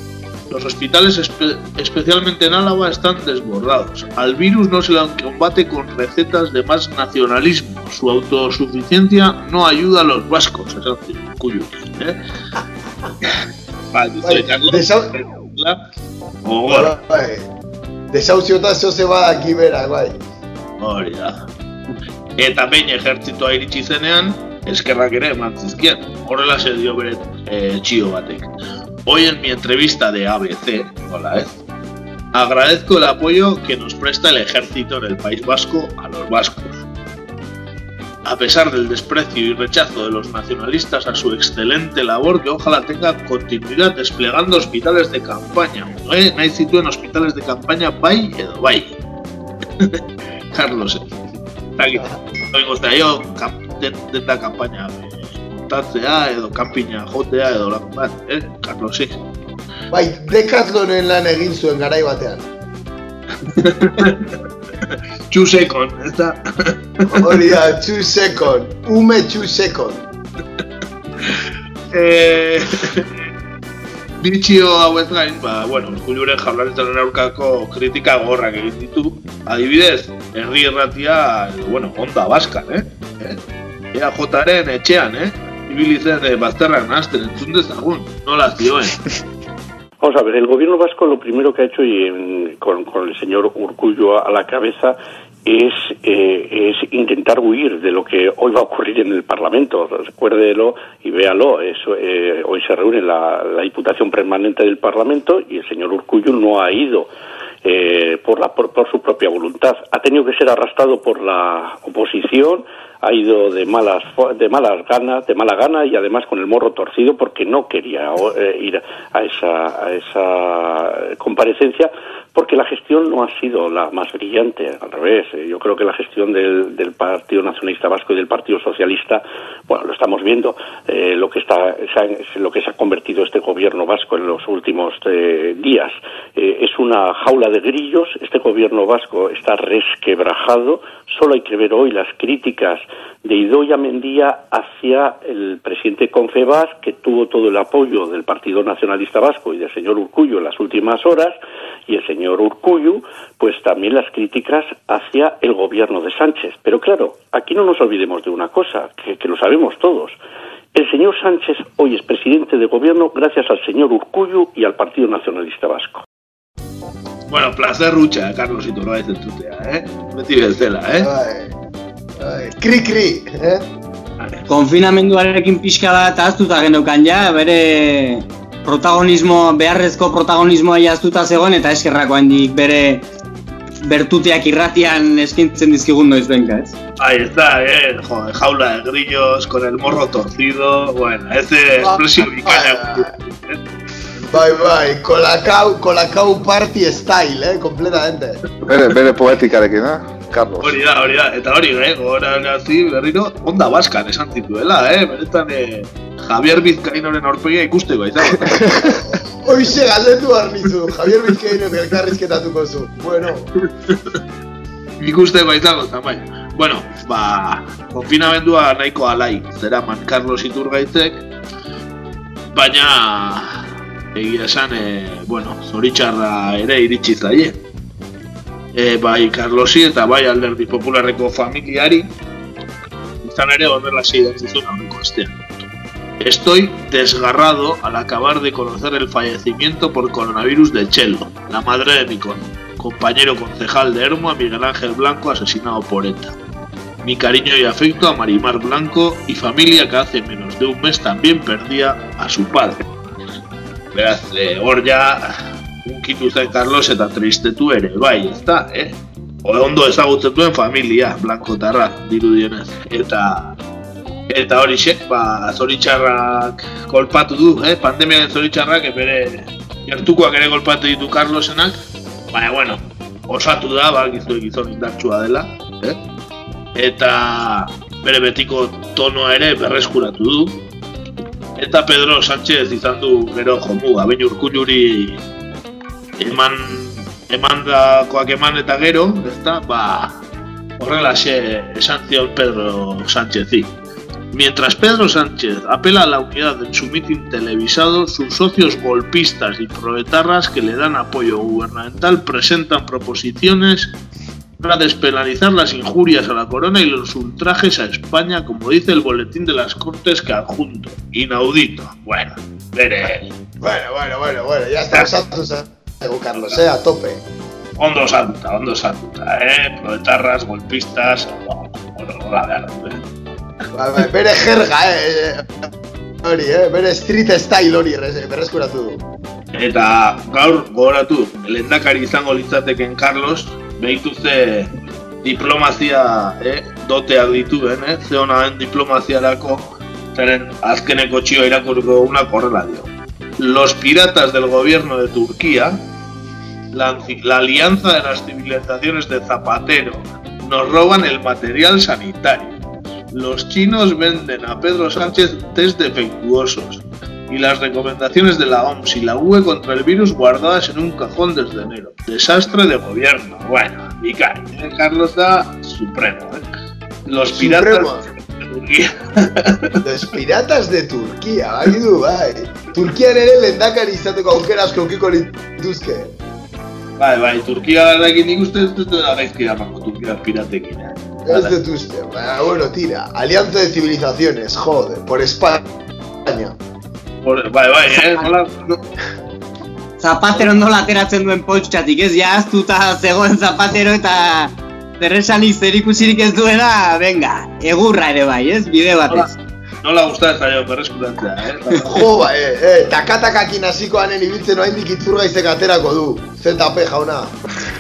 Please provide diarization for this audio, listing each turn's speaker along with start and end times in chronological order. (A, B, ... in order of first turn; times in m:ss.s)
0:00.5-0:12.2 A
0:13.9-0:15.8 A
0:14.2-0:15.1 B
0:16.4-0:16.9 A
0:16.7-0:17.5 B
0:18.1-0:20.2 B
0:20.8-0:21.5 A
0:22.4-0:28.5 A
0:29.1-0:31.6 A
0:32.3-0:36.8 A
0:38.2-0:49.0 A
0:50.5-0:51.1 A
0:51.8-0:59.2 A
0:59.9-1:02.5 B
1:03.5-1:04.3 A
1:04.9-1:07.3 A
1:07.1-1:10.1 B
1:11.2-1:13.1 A
1:14.2-1:23.4 A
1:23.9-1:29.0 A
1:30.0-1:47.1 C
1:47.6-2:31.4 C
2:31.9-2:40.2 C
2:40.8-2:46.0 C
2:47.3-2:51.1 A
2:51.0-2:51.5 B
2:52.2-2:53.6 B
2:54.5-3:03.1 D
3:03.8-3:06.8 D
3:07.0-3:13.6 A
3:11.8-3:13.1 B
3:14.3-3:18.4 B
3:18.7-3:20.8 E
3:20.6-3:28.7 A
3:28.6-3:33.5 B
3:33.6-3:34.2 A
3:35.0-3:41.3 A
3:42.5-3:43.6 A
3:44.2-3:47.6 A
3:48.7-3:52.1 A
3:53.2-3:55.4 A
3:56.2-4:06.4 A
4:07.0-4:12.9 A
4:13.9-4:23.5 A
4:24.3-4:31.8 A
4:32.3-4:36.0 A
4:36.8-4:40.6 A
4:41.6-4:45.2 A
4:46.2-4:50.2 A
4:50.8-4:53.7 A
4:54.3-5:03.9 A
5:04.6-5:13.3 A
5:13.6-5:17.2 B
5:17.8-5:23.0 A
5:23.7-5:25.5 B
5:26.2-5:29.0 B
5:29.5-5:34.7 A
5:35.2-5:45.9 A
5:46.7-5:52.6 A
5:53.1-6:06.5 A
6:07.1-6:09.7 A
6:07.3-6:08.1 B
6:09.8-6:16.1 B
6:17.0-6:21.6 A
6:21.3-6:25.6 B
6:26.2-6:26.6 B
6:27.2-6:28.8 A
6:30.0-6:39.3 D
6:39.8-6:42.0 A
6:41.8-6:47.4 B